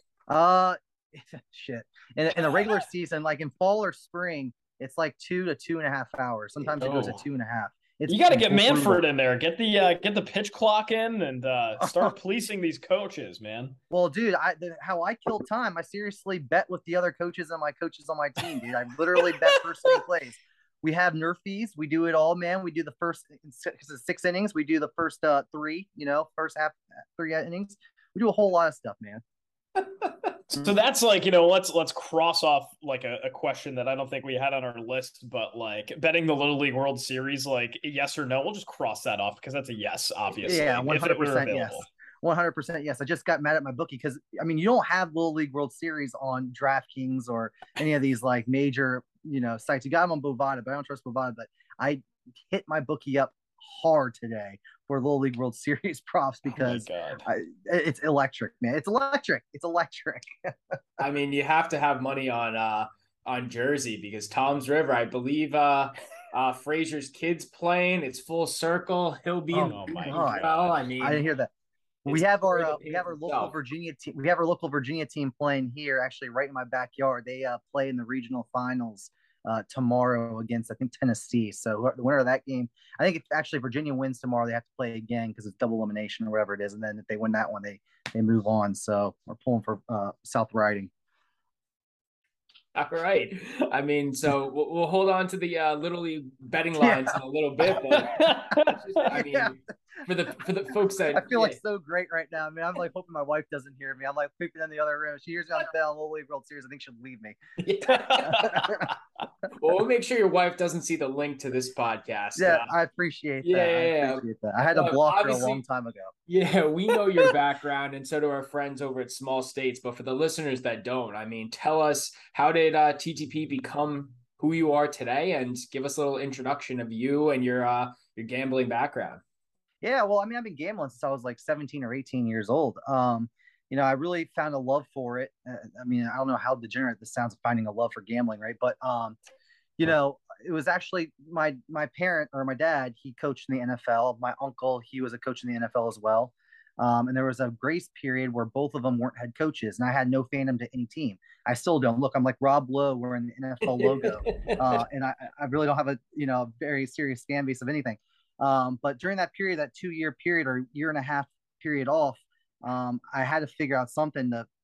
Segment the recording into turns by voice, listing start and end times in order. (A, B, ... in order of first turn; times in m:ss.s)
0:00.3-0:09.0 A
0:06.8-0:07.2 B
0:08.1-0:13.8 C
0:11.8-0:12.1 A
0:13.9-0:29.2 A
0:19.2-0:20.0 C
0:30.5-0:41.8 C
0:40.4-1:00.5 A
0:56.5-0:57.2 C
1:01.0-1:11.2 B
1:09.5-1:10.5 A
1:09.5-1:10.8 C
1:11.0-1:11.5 A
1:12.0-1:13.5 B
1:12.0-1:30.9 A
1:32.7-1:41.6 B
1:36.8-1:37.2 A
1:37.9-1:39.1 C
1:39.0-1:39.5 A
1:41.1-1:47.4 A
1:47.6-1:48.6 B
1:47.9-1:48.7 C
1:48.2-1:48.9 A
1:49.6-1:52.7 B
1:52.4-1:56.1 A
1:53.4-1:55.6 B
1:56.3-2:09.2 B
2:09.8-2:19.2 A
2:19.8-2:44.5 A
2:33.6-2:34.8 B